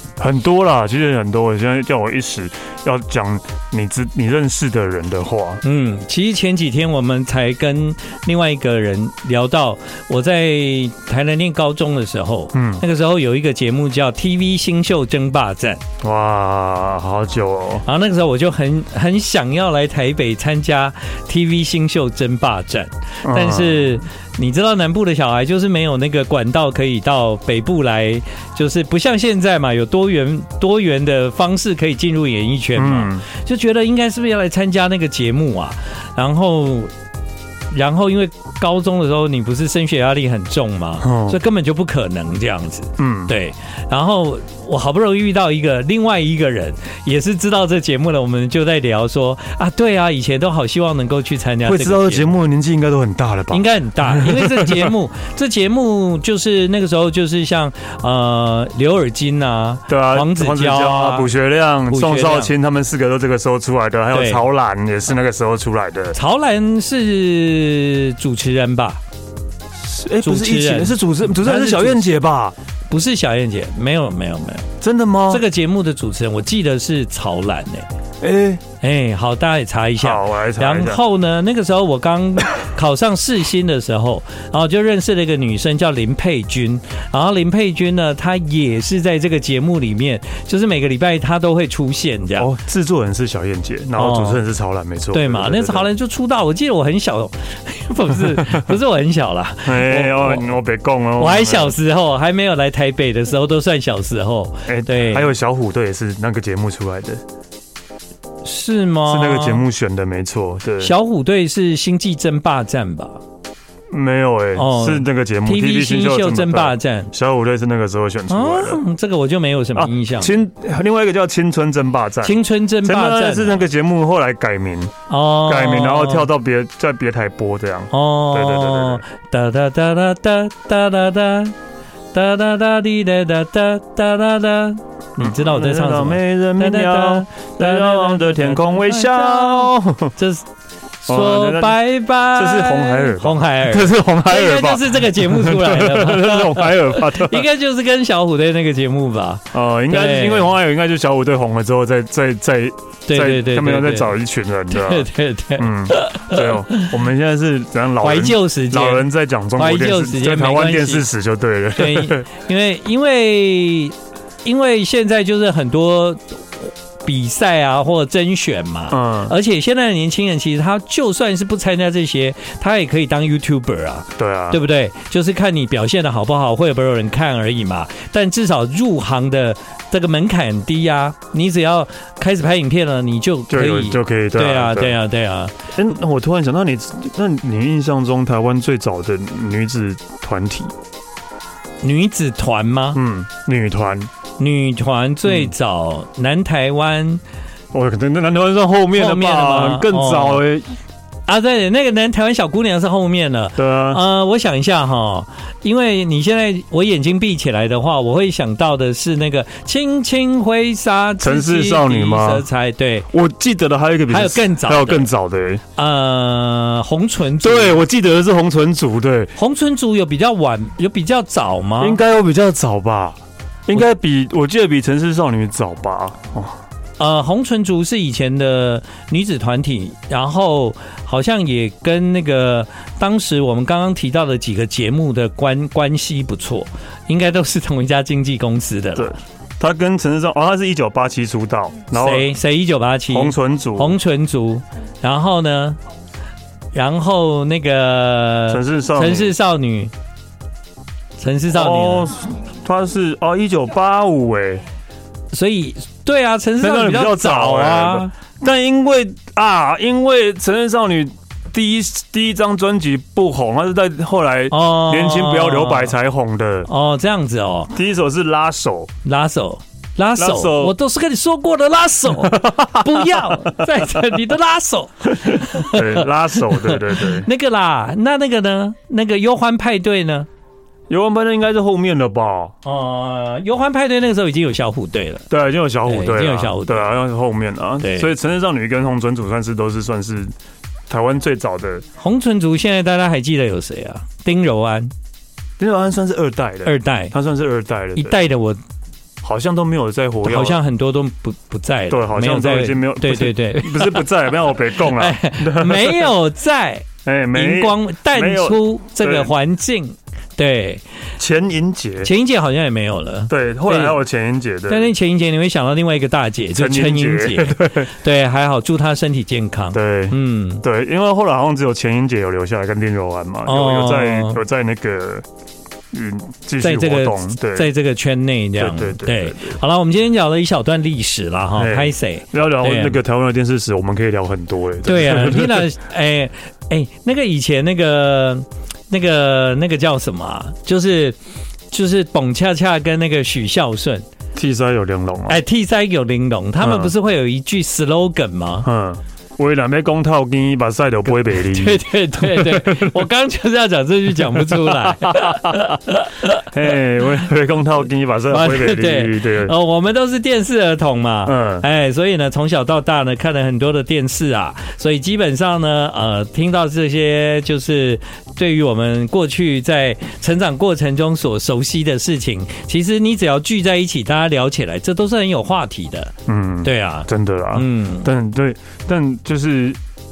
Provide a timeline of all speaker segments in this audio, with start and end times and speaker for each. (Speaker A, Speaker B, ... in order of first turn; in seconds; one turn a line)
Speaker A: 0.2-5.6
Speaker B: 5.6-15.8
Speaker A: 12.5-12.8
Speaker A: 16.0-17.8
Speaker B: 17.8-36.9
Speaker A: 23.2-23.9
Speaker A: 32.8-33.2
Speaker B: 37.7-52.3
Speaker A: 41.0-41.4
Speaker A: 43.0-43.3
Speaker A: 51.6-54.9
Speaker B: 53.5-61.3
Speaker A: 59.9-66.2
Speaker B: 61.9-62.5
Speaker B: 64.1-64.4
Speaker B: 66.1-69.0
Speaker A: 69.8-72.5
Speaker B: 70.2-72.2
Speaker B: 72.9-74.7
Speaker A: 74.8-75.4
Speaker B: 75.3-77.9
Speaker A: 78.2-78.6
Speaker B: 78.8-92.5
Speaker A: 80.0-81.0
Speaker A: 92.4-95.9
Speaker B: 94.0-94.4
Speaker B: 95.1-100.4
Speaker A: 99.6-101.8
Speaker B: 101.2-105.3
Speaker A: 104.7-107.2
Speaker B: 108.4-109.6
Speaker A: 109.0-110.9
Speaker B: 110.8-113.2
Speaker A: 113.9-118.8
Speaker B: 114.5-117.1
Speaker B: 118.3-120.3
Speaker A: 119.7-129.0
Speaker B: 122.2-123.6
Speaker B: 125.1-126.3
Speaker B: 127.9-131.6
Speaker B: 132.1-140.5
Speaker A: 135.2-140.1
Speaker B: 141.0-150.5
Speaker A: 141.1-147.5
Speaker A: 149.5-162.2
Speaker B: 153.1-154.2
Speaker B: 154.7-156.9
Speaker B: 158.0-161.1
Speaker B: 161.8-185.5
Speaker A: 168.9-169.3
Speaker A: 174.2-174.6
Speaker A: 183.5-185.0
Speaker A: 185.7-190.7
Speaker B: 191.8-193.0
Speaker A: 192.9-194.1
Speaker B: 194.4-197.2
Speaker A: 195.3-195.5
Speaker A: 197.7-200.7
Speaker B: 198.9-200.4
Speaker B: 201.3-213.1
Speaker A: 203.6-204.0
Speaker A: 211.2-212.4
Speaker A: 213.1-215.6
Speaker B: 214.1-215.1
Speaker B: 215.8-217.8
Speaker A: 217.4-219.3
Speaker B: 219.4-222.0
Speaker A: 221.8-226.6
Speaker B: 227.0-239.2
Speaker A: 238.9-242.3
Speaker B: 241.9-245.8
Speaker A: 243.1-244.0
Speaker B: 246.7-249.9
Speaker A: 248.5-249.4
Speaker B: 251.2-252.1
Speaker A: 251.5-254.6
Speaker B: 255.3-258.1
Speaker A: 256.6-266.7
Speaker B: 264.5-265.9
Speaker B: 266.6-267.7
Speaker A: 267.7-268.9
Speaker B: 269.0-280.3
Speaker A: 270.2-270.8
Speaker A: 272.1-273.8
Speaker A: 275.2-277.3
Speaker A: 280.9-282.5
Speaker B: 282.6-285.2
Speaker A: 285.3-290.3
Speaker B: 285.9-286.9
Speaker B: 287.8-288.1
Speaker A: 290.9-291.8
Speaker B: 292.0-294.9
Speaker A: 295.6-298.2
Speaker B: 296.6-297.1
Speaker B: 298.0-298.6
Speaker A: 299.2-300.6
Speaker B: 300.2-304.1
Speaker A: 301.9-306.1
Speaker B: 304.7-310.8
Speaker A: 307.0-309.3
Speaker A: 311.2-312.1
Speaker B: 312.0-314.0
Speaker A: 313.3-314.9
Speaker B: 314.7-320.6
Speaker A: 316.5-317.9
Speaker A: 319.7-325.2
Speaker B: 323.4-324.4
Speaker A: 325.9-327.7
Speaker B: 326.6-333.0
Speaker A: 328.6-329.6
Speaker A: 331.6-335.7
Speaker B: 334.8-341.2
Speaker B: 341.7-344.0
Speaker A: 344.3-345.4
Speaker B: 345.3-348.7
Speaker A: 346.6-346.9
Speaker A: 348.6-353.1
Speaker B: 351.3-356.4
Speaker A: 354.2-355.7
Speaker A: 356.4-359.5
Speaker B: 358.3-378.1
Speaker A: 361.2-361.6
Speaker A: 376.3-379.8